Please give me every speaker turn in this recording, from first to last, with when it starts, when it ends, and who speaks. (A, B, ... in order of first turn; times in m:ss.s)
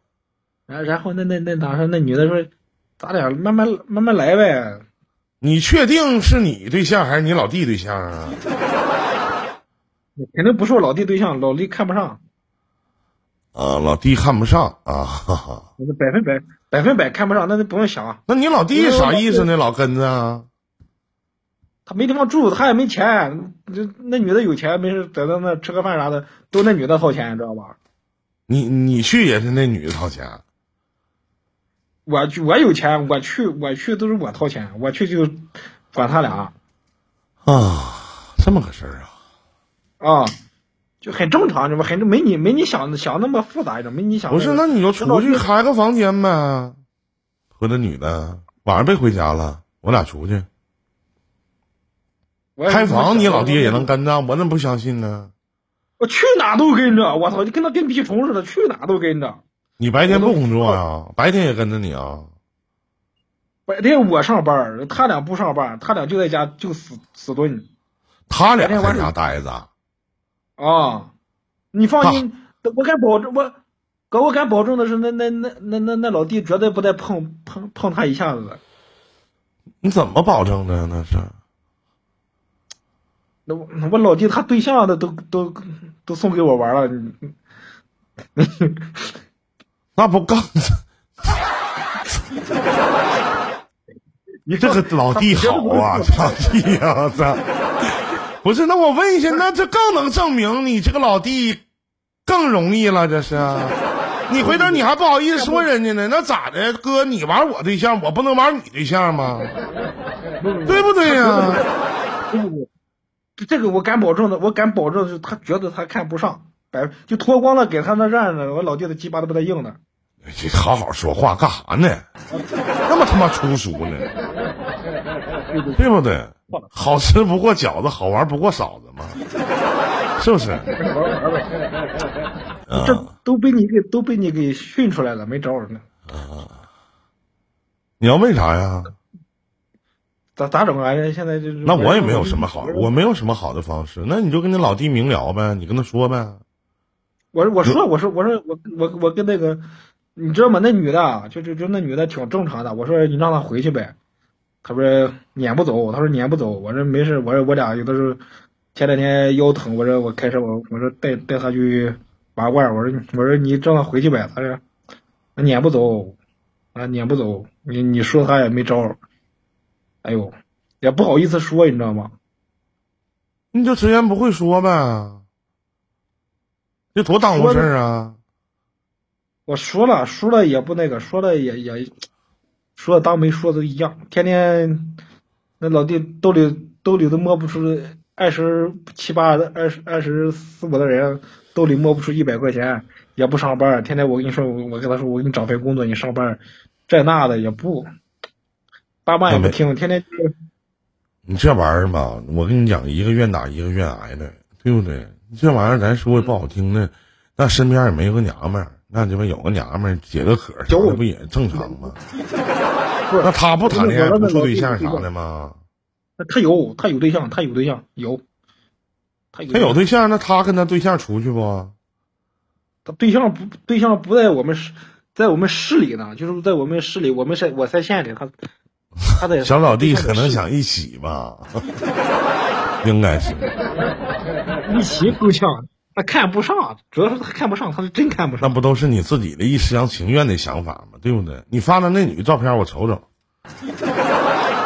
0:00.7-0:04.8 A
0:05.4-0:08.4 B
0:10.2-0:12.2 A
0:13.6-0:15.7 B
0:15.8-0:18.2 A
0:18.3-0:20.5 B
0:18.8-0:19.5 A
0:21.8-0:27.8 A
0:28.5-0:30.4 B
0:32.1-0:36.5 A
0:37.4-0:39.1 B
0:40.0-0:40.4 A
0:41.0-0:45.5 A
0:44.3-0:46.8 B
0:47.6-0:50.5 B
0:52.6-0:53.9 A
0:52.7-0:55.3 B
0:56.0-0:59.4 A
0:59.8-1:02.3 B
1:00.1-1:00.8 A
1:03.7-1:07.7 A
1:08.3-1:09.7 B
1:08.6-1:09.1 A
1:10.6-1:11.1 A
1:11.7-1:13.6 A
1:14.1-1:18.6 A
1:19.8-1:21.4 B
1:23.5-1:27.3 A
1:28.4-1:29.2 A
1:30.0-1:30.8 B
1:34.4-1:36.3 A
1:34.6-1:41.6 B
1:42.3-1:43.8 B
1:44.3-1:49.6 B
1:44.4-1:44.9 A
1:45.4-1:45.6 A
1:50.4-1:51.8 A
1:50.7-1:51.6 B
1:52.3-1:52.7 A
1:53.4-1:59.8 A
2:00.3-2:02.0 B
2:02.9-2:04.1 B
2:05.5-2:05.9 A
2:05.8-2:09.2 B
2:10.2-2:10.7 B
2:10.7-2:11.5 A
2:12.7-2:13.1 B
2:12.8-2:15.8 A
2:16.1-2:16.6 B
2:18.0-2:18.9 B
2:20.4-2:22.9 A
2:21.6-2:26.4 B
2:27.3-2:34.0 A
2:34.6-2:38.2 A
2:38.8-2:44.6 A
2:45.4-2:46.2 A
2:46.8-2:49.0 A
2:50.0-2:52.2 A
2:53.5-2:55.2 B
2:57.0-2:58.2 B
2:57.2-2:57.7 A
2:59.5-3:01.9 A
3:02.8-3:05.0 A
3:05.6-3:17.9 A
3:19.0-3:20.3 A
3:19.3-3:19.6 B
3:21.3-3:32.0 B
3:30.7-3:31.0 A
3:31.5-3:31.8 A
3:33.1-3:35.1 A
3:33.2-3:35.6 B
3:36.2-3:38.2 A
3:39.3-3:39.8 A
3:39.5-3:41.7 B
3:42.8-3:48.3 A
3:49.2-3:50.4 A
3:49.4-3:51.6 B
3:52.8-3:53.5 B
3:54.7-3:58.6 A
3:58.4-4:03.0 B